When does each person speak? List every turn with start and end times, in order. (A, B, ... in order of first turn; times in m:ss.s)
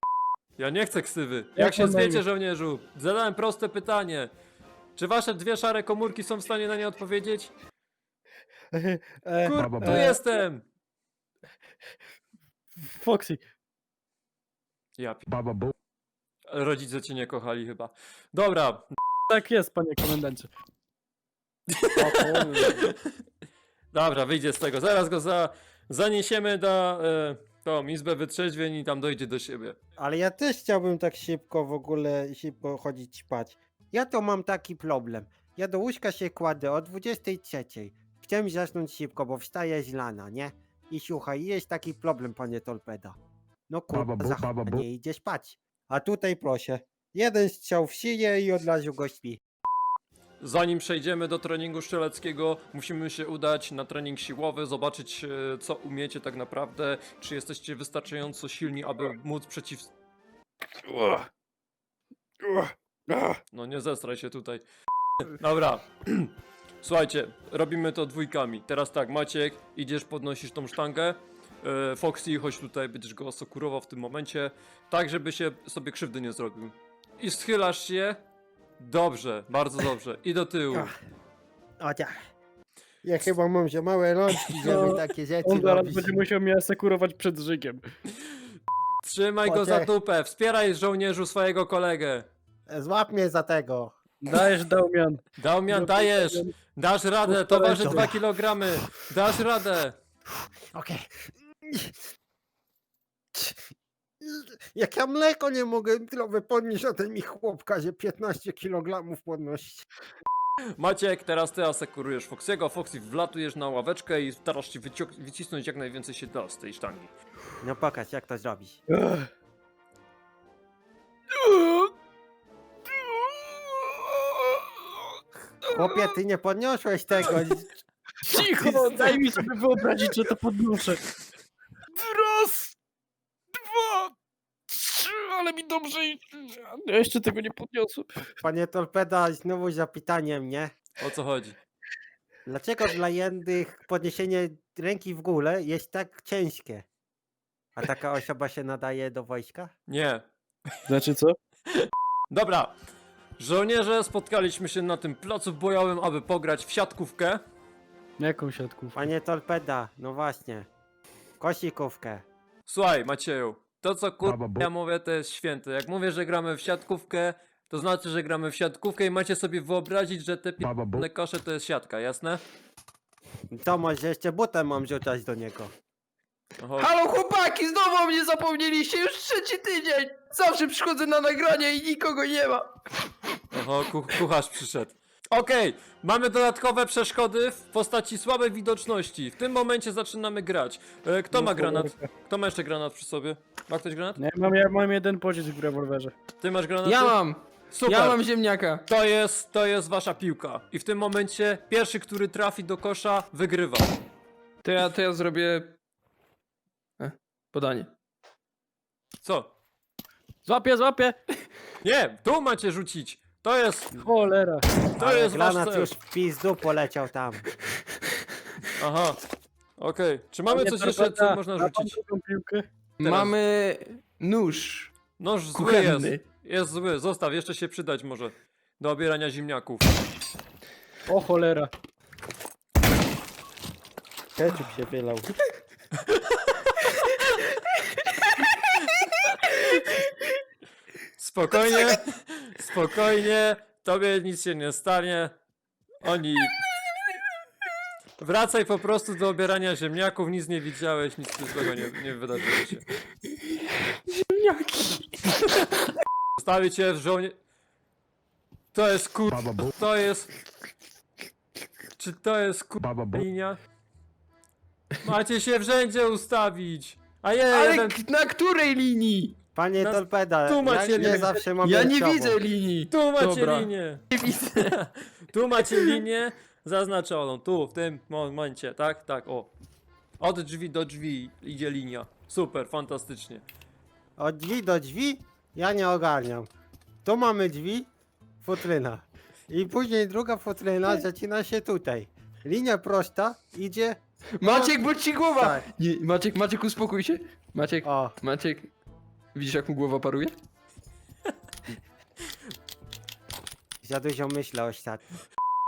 0:00.6-0:04.3 A
0:01.6-0:02.2 B
0:05.0-0:07.5 A
0:08.7-0:10.2 B
0:09.4-0:10.6 A
0:09.6-0:10.1 C
0:12.9-0:13.4 B
0:15.0-0:15.3 A
0:15.3-0:15.7 C
0:16.5-0:18.8 A
0:19.3-0:20.5 B
0:21.7-0:22.4 A
0:22.0-0:22.9 D
0:23.9-0:29.8 A
0:30.0-0:43.2 D
0:43.7-0:49.4 D
0:43.9-0:44.8 C
0:50.4-0:59.9 A
1:00.8-1:01.2 B
1:02.5-1:03.4 B
1:03.5-1:04.6 A
1:05.3-1:18.2 A
1:18.8-1:20.9 A
1:21.8-1:22.2 D
1:23.0-1:26.2 D
1:24.6-1:27.8 B
1:29.0-1:32.3 A
1:29.4-1:29.9 D
1:32.7-1:34.0 D
1:34.2-1:36.5 B
1:35.4-1:40.0 A
1:37.3-1:38.0 B
1:37.6-1:38.2 D
1:40.7-1:41.9 D
1:43.3-1:43.7 D
1:44.2-1:49.9 D
1:50.8-1:57.1 A
1:57.6-1:58.8 D
1:58.9-1:59.3 B
2:01.4-2:01.9 B
2:05.7-2:06.1 B
2:05.7-2:07.7 D
2:08.2-2:11.0 B
2:08.4-2:09.3 D
2:11.9-2:12.7 B
2:13.6-2:14.1 B
2:14.7-2:18.1 B
2:18.4-2:20.7 D
2:21.0-2:21.6 A
2:22.4-2:26.8 D
2:27.8-2:29.7 D
2:29.9-2:30.3 A
2:30.9-2:31.4 B
2:32.3-2:32.7 A
2:33.4-2:37.4 A
2:38.2-2:39.0 B
2:38.9-2:40.7 D
2:41.4-2:42.2 D
2:42.6-2:52.4 A
2:44.2-2:44.7 C
2:50.6-2:51.1 C
2:53.5-2:55.7 D
2:56.6-2:56.9 A
2:56.8-3:02.9 E
3:03.5-3:14.2 A
3:11.3-3:12.1 B
3:14.2-3:16.1 B
3:16.4-3:17.2 A
3:16.8-3:18.8 E
3:17.7-3:18.2 A
3:18.8-3:23.9 A
3:24.6-3:25.8 E
3:27.0-3:27.9 E
3:29.2-3:29.5 A
3:30.4-3:31.2 B
3:31.8-3:34.0 A
3:34.0-3:34.7 B
3:34.9-3:35.9 A
3:35.0-3:37.4 D
3:38.8-3:39.2 A
3:39.8-3:42.0 A
3:40.5-3:42.7 B
3:43.0-3:44.9 E
3:43.0-3:43.3 A
3:45.2-3:49.9 A
3:45.5-3:46.2 E
3:51.1-3:51.7 B
3:54.4-3:55.3 D
4:01.2-4:05.3 A
4:06.0-4:06.6 A
4:08.2-4:12.9 A
4:14.1-4:15.7 E
4:16.4-4:17.3 A
4:18.7-4:20.3 A
4:19.3-4:19.7 C
4:22.0-4:23.6 A
4:22.8-4:23.2 C
4:25.0-4:28.0 A
4:27.5-4:29.4 E
4:29.5-4:32.4 D
4:29.8-4:31.4 A
4:31.0-4:34.8 E
4:32.9-4:39.5 A
4:35.7-4:36.0 E
4:40.2-4:43.4 A
4:44.2-4:46.5 D
4:47.0-4:47.9 D
4:48.4-4:54.8 D
4:54.4-4:58.7 E
4:55.3-4:55.6 D
4:57.8-4:58.2 D
4:59.3-5:00.4 E
5:03.8-5:05.0 D